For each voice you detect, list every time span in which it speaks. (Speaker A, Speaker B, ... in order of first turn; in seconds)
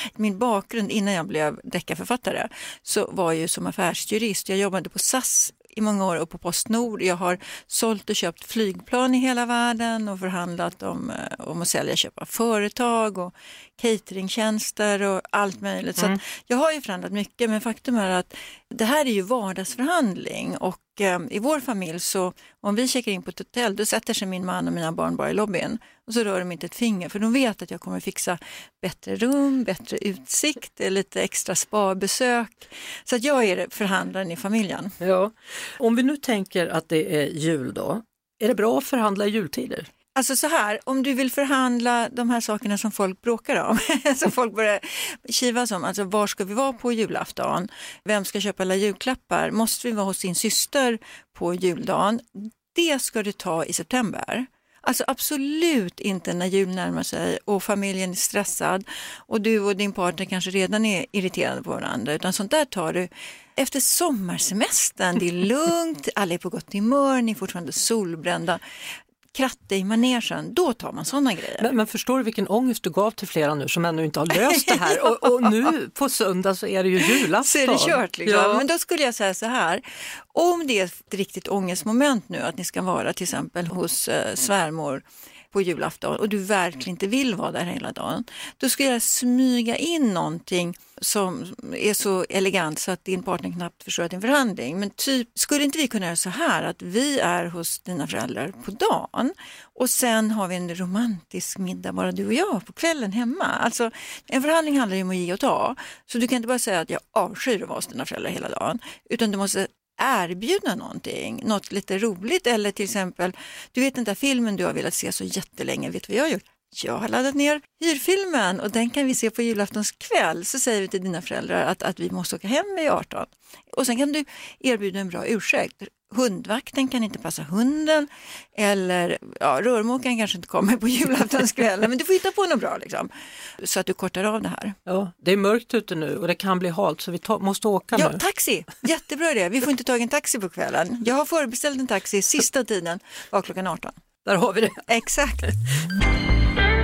Speaker A: 0.1-35.0, 40.1-68.6, 69.3-71.7, 74.5-75.5, 77.4-134.8, 137.9-144.0, 144.9-145.5
Speaker B: 35.0-39.9, 71.6-78.6, 134.9-138.2, 144.2-144.8